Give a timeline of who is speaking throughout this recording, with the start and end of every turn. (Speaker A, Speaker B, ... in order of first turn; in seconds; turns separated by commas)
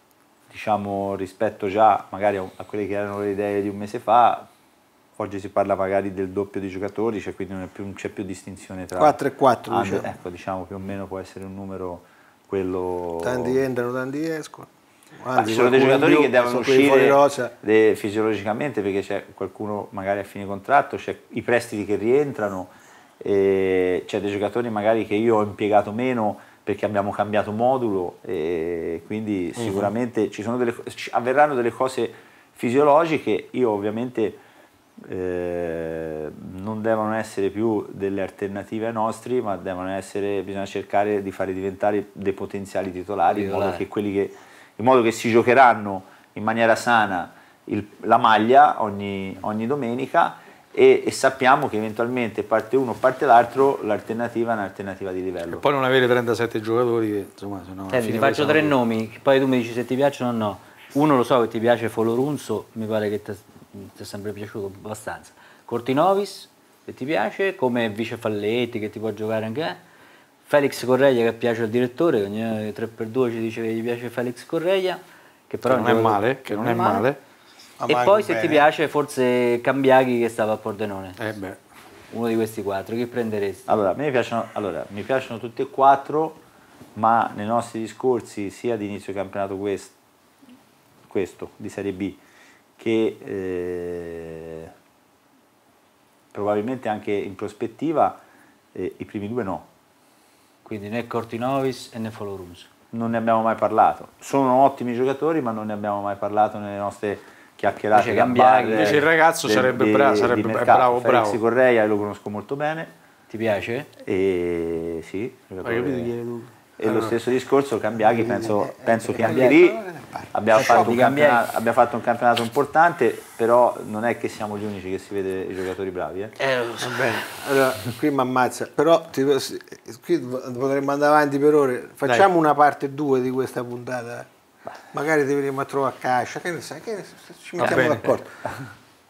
Speaker A: 0.5-4.5, Speaker A: 5.2-13.6, Speaker B: 9.0-10.1, Speaker B: 13.2-17.5, Speaker A: 15.3-34.4, Speaker A: 35.0-55.6, Speaker C: 43.3-43.9, Speaker D: 55.5-58.8, Speaker C: 57.9-69.8, Speaker C: 70.5-77.1, Speaker D: 75.7-77.2, Speaker B: 77.8-78.7, Speaker C: 77.9-81.2, Speaker D: 81.2-81.6, Speaker C: 82.1-83.7, Speaker A: 83.7-86.4, Speaker A: 87.0-89.9, Speaker A: 91.1-92.2, Speaker A: 92.8-94.7, Speaker A: 96.3-98.2, Speaker A: 98.8-99.7, Speaker C: 100.7-102.7, Speaker A: 102.9-112.9, Speaker C: 107.9-109.0, Speaker D: 108.8-111.4, Speaker C: 113.3-113.9, Speaker A: 114.0-116.1, Speaker D: 115.6-117.1, Speaker A: 116.8-126.3, Speaker B: 118.2-121.0, Speaker C: 120.5-121.5, Speaker C: 126.4-127.0, Speaker B: 126.8-134.3, Speaker B: 134.9-138.4, Speaker D: 137.6-138.1